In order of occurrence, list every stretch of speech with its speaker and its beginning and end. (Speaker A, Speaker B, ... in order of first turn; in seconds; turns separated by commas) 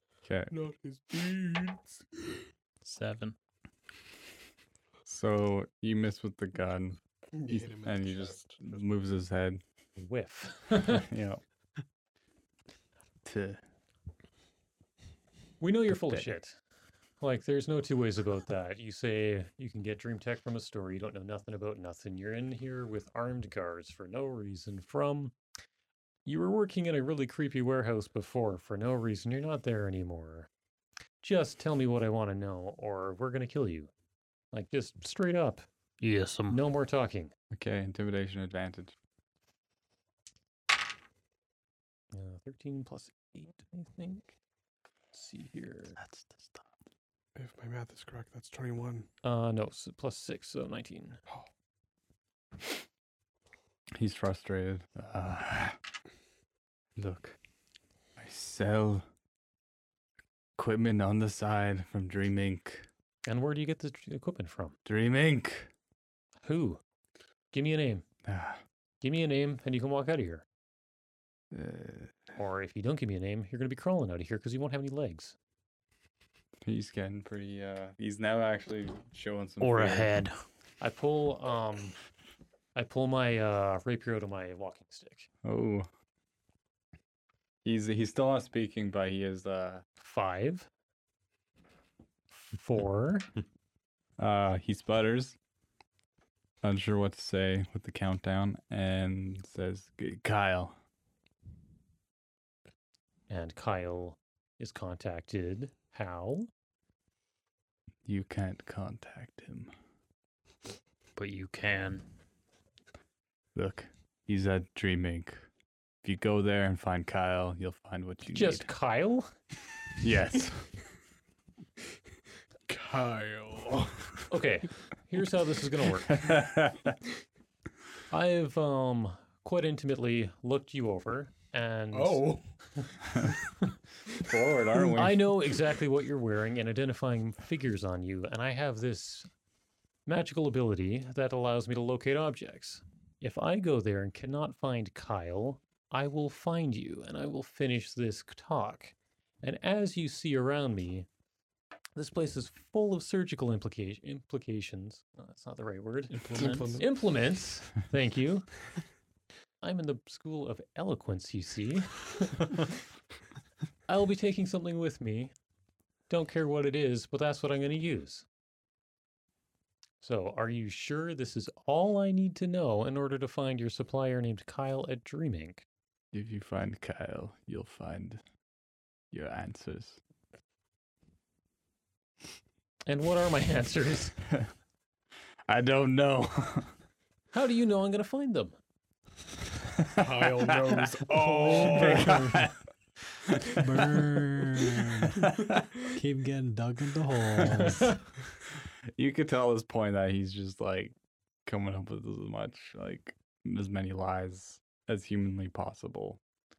Speaker A: 0.2-0.5, Speaker B: 0.5-2.0, Speaker C: 2.8-3.3, Speaker A: 5.0-9.6, Speaker B: 7.3-8.8, Speaker D: 10.0-11.1, Speaker A: 10.8-11.4, Speaker A: 13.2-13.6, Speaker D: 15.6-16.6, Speaker A: 15.9-16.3, Speaker D: 17.2-25.3, Speaker D: 26.2-30.5, Speaker D: 31.2-33.9, Speaker D: 34.5-35.6, Speaker E: 36.0-36.6, Speaker D: 36.5-37.3, Speaker A: 37.5-38.9, Speaker D: 42.1-44.3, Speaker D: 45.1-46.0, Speaker C: 46.0-46.6, Speaker B: 47.4-49.1, Speaker D: 49.2-51.2, Speaker A: 54.0-55.8, Speaker A: 57.0-57.4, Speaker A: 58.2-59.0, Speaker A: 60.6-62.9, Speaker D: 63.2-64.8, Speaker A: 64.8-65.7, Speaker D: 66.4-66.8, Speaker D: 67.5-68.0, Speaker A: 68.2-68.6, Speaker D: 69.0-70.4, Speaker A: 71.5-72.2, Speaker D: 72.3-75.3, Speaker A: 76.6-80.2, Speaker E: 79.6-80.3, Speaker D: 80.8-82.0, Speaker D: 82.7-85.3, Speaker A: 85.4-85.9, Speaker A: 87.6-89.8, Speaker D: 90.0-90.7, Speaker D: 92.3-93.3, Speaker A: 94.2-95.4, Speaker A: 96.6-100.7, Speaker D: 103.3-106.5, Speaker A: 108.0-109.7, Speaker E: 111.2-112.0, Speaker A: 113.5-115.5, Speaker A: 116.0-118.7, Speaker D: 118.3-119.3, Speaker A: 120.0-120.7, Speaker B: 122.7-124.2, Speaker D: 124.3-126.2, Speaker A: 126.1-127.0, Speaker D: 128.1-132.3, Speaker B: 131.9-132.4, Speaker A: 134.2-135.3, Speaker D: 134.8-139.3, Speaker D: 140.1-151.1, Speaker D: 151.9-158.7, Speaker C: 156.1-156.8, Speaker B: 156.3-156.8, Speaker D: 159.6-162.7, Speaker D: 163.9-165.3, Speaker D: 166.1-168.2, Speaker D: 170.0-175.6, Speaker A: 176.1-178.2, Speaker A: 179.1-180.0, Speaker D: 182.9-184.2, Speaker A: 185.5-186.7, Speaker D: 187.3-188.6, Speaker A: 189.9-190.9, Speaker B: 189.9-192.1, Speaker F: 191.1-192.5, Speaker A: 191.4-192.5, Speaker F: 193.5-195.2, Speaker A: 195.1-195.7, Speaker F: 195.9-197.9, Speaker A: 197.4-197.6, Speaker A: 198.9-200.9, Speaker A: 201.4-206.2